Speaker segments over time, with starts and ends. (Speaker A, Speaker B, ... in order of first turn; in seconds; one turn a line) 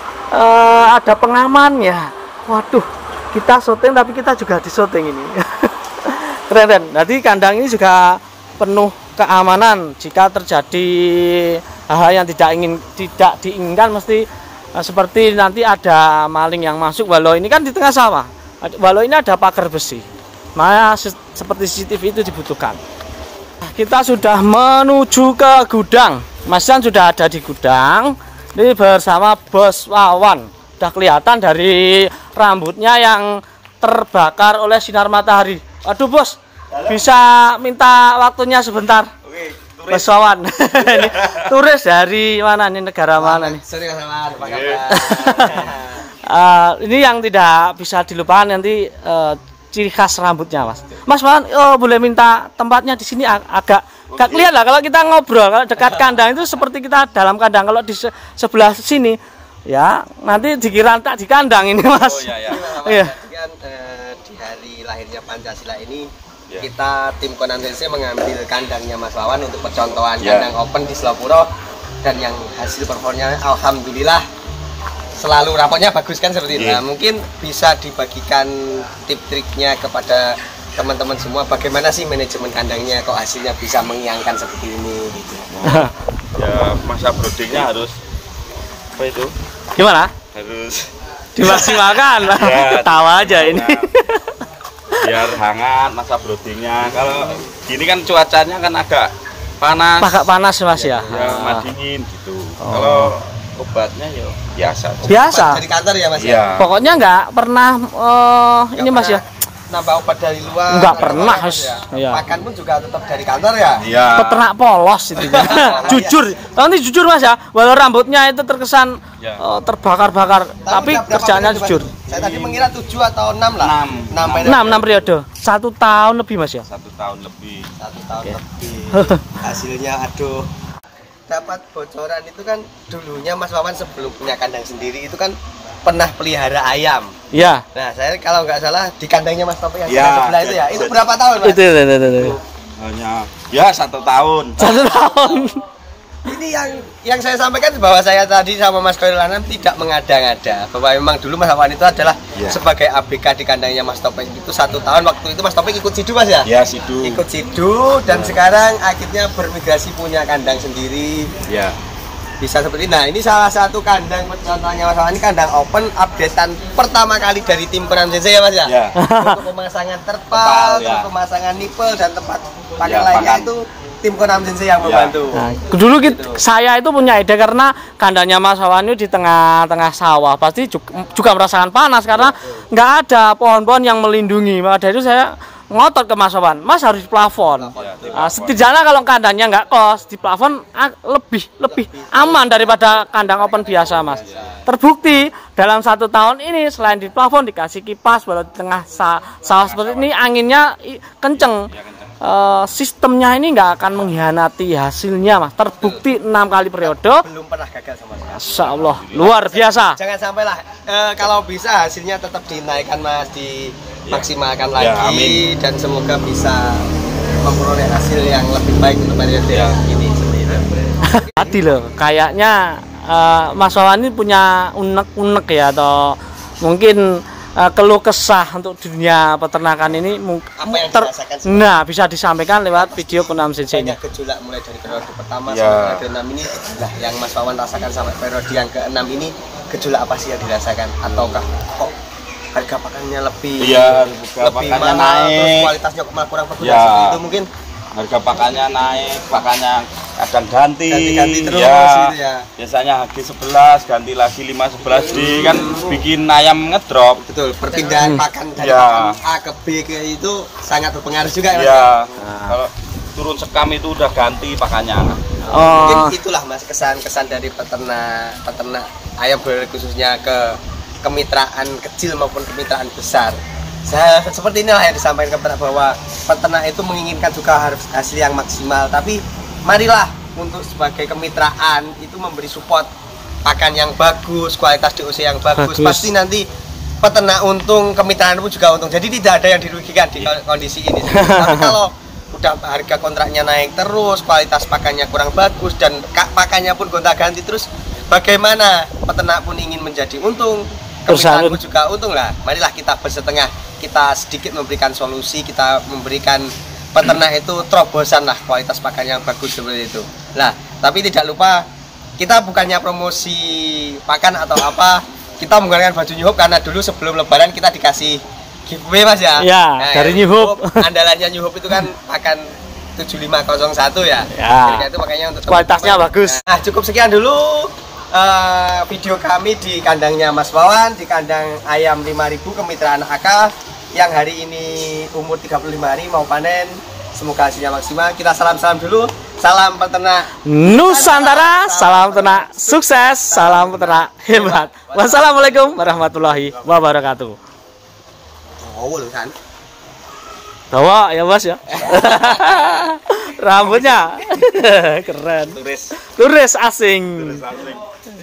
Speaker A: 0.3-14.2
Speaker A: 14.8-20.1
Speaker A: 20.6-22.8
Speaker A: 23.7-33.3
Speaker A: 33.8-39.1
Speaker B: 36.7-37.0
Speaker B: 39.2-40.2
Speaker A: 39.9-43.6
Speaker B: 40.8-41.5
Speaker C: 43.2-46.0
Speaker B: 44.4-44.9
Speaker A: 44.9-45.7
Speaker A: 46.3-59.2
Speaker B: 54.1-54.5
Speaker C: 55.8-56.2
Speaker A: 59.7-63.1
Speaker B: 61.9-62.6
Speaker C: 62.4-71.5
Speaker B: 70.2-70.5
Speaker C: 72.0-74.3
Speaker C: 75.2-85.5
Speaker B: 76.5-76.8
Speaker B: 85.5-88.0
Speaker A: 85.6-85.9
Speaker B: 89.0-89.3
Speaker A: 89.8-90.1
Speaker B: 90.3-90.9
Speaker A: 91.3-94.4
Speaker B: 91.5-93.9
Speaker B: 95.0-99.1
Speaker B: 99.6-100.3
Speaker A: 100.0-101.7
Speaker C: 100.8-101.4
Speaker B: 101.1-105.2
Speaker A: 102.6-103.1
Speaker C: 105.0-106.5
Speaker A: 105.1-105.6
Speaker B: 106.2-106.7
Speaker A: 106.6-109.2
Speaker C: 108.8-113.8
Speaker A: 110.7-112.2
Speaker B: 113.8-114.4
Speaker A: 114.2-121.9
Speaker C: 115.2-116.3
Speaker B: 115.2-116.0
Speaker C: 120.7-124.8
Speaker B: 122.1-122.6
Speaker B: 123.6-125.1
Speaker A: 124.4-126.7
Speaker B: 126.7-127.7
Speaker C: 127.8-130.5
Speaker A: 128.9-129.2
Speaker C: 131.3-141.7
Speaker A: 137.3-137.6
Speaker B: 139.9-141.0
Speaker A: 141.4-142.4
Speaker B: 142.1-144.6
Speaker A: 144.6-145.6
Speaker C: 144.6-145.4
Speaker C: 146.2-156.5
Speaker B: 156.4-157.2
Speaker C: 157.0-161.3
Speaker B: 158.1-158.3
Speaker B: 161.5-161.8
Speaker C: 162.4-176.4
Speaker B: 168.7-168.9
Speaker A: 169.0-169.4
Speaker B: 170.3-171.1
Speaker B: 172.8-173.5
Speaker B: 174.8-175.1
Speaker A: 175.4-201.7
Speaker C: 182.3-182.7
Speaker C: 187.5-188.3
Speaker B: 187.8-188.6
Speaker C: 191.7-194.6
Speaker B: 199.6-200.1
Speaker B: 201.4-202.1
Speaker A: 202.2-207.3
Speaker C: 206.8-208.4
Speaker A: 208.3-210.0
Speaker B: 208.5-209.4
Speaker C: 209.3-216.9
Speaker B: 214.1-215.4
Speaker C: 217.4-221.8
Speaker B: 219.5-219.8
Speaker A: 221.1-234.0
Speaker C: 230.6-231.7
Speaker C: 232.7-241.9
Speaker B: 235.5-236.0
Speaker B: 241.1-241.4
Speaker C: 242.5-247.5
Speaker B: 243.6-245.7
Speaker B: 246.6-247.2
Speaker B: 248.0-257.2
Speaker C: 250.9-252.5
Speaker C: 255.1-256.0
Speaker C: 257.2-261.9
Speaker B: 258.6-259.2
Speaker B: 261.5-265.9
Speaker A: 262.2-262.6
Speaker A: 265.5-266.1
Speaker C: 265.7-273.4
Speaker C: 273.9-282.9
Speaker C: 283.4-286.4
Speaker A: 285.6-286.1
Speaker C: 287.0-311.6
Speaker A: 291.1-291.7
Speaker A: 301.1-301.6
Speaker C: 312.2-322.4
Speaker A: 319.4-320.9
Speaker C: 323.0-345.9
Speaker A: 324.3-324.9
Speaker A: 325.5-326.4
Speaker A: 340.4-347.4
Speaker C: 348.6-349.4
Speaker A: 350.7-357.4
Speaker C: 351.7-352.9
Speaker C: 353.6-354.0
Speaker B: 355.5-355.9
Speaker B: 357.2-357.9